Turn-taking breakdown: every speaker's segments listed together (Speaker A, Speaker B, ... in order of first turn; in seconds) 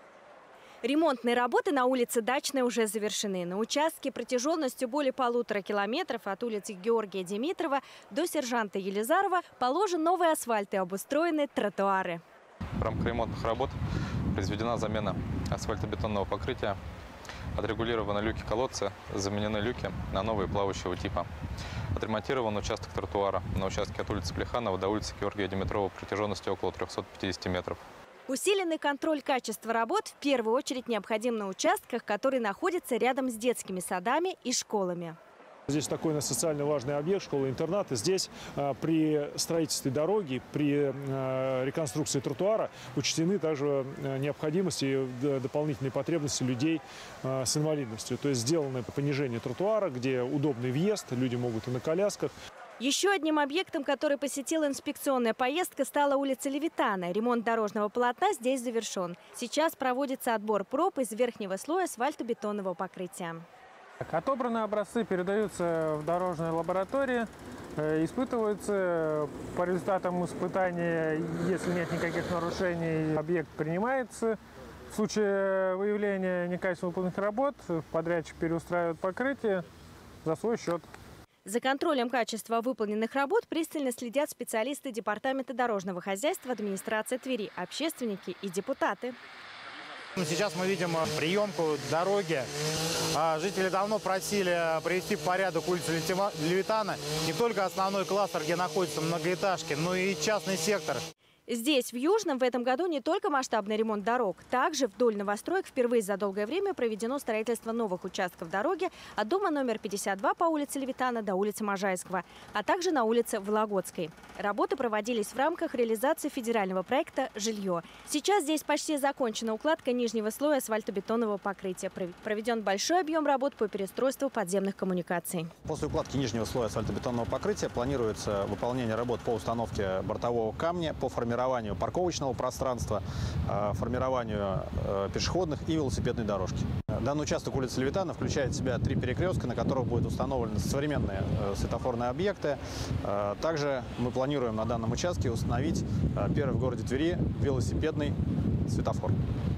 Speaker A: 0.8-12.2, 28.3-35.2, 52.8-63.5, 81.5-89.2, 101.5-125.5
Speaker B: 12.8-13.8, 14.3-16.8, 17.6-21.3, 22.0-27.8
Speaker C: 35.7-52.3
Speaker D: 64.1-74.4, 74.9-79.7, 80.2-80.9
Speaker E: 90.2-92.5, 93.1-101.0
Speaker F: 125.7-149.2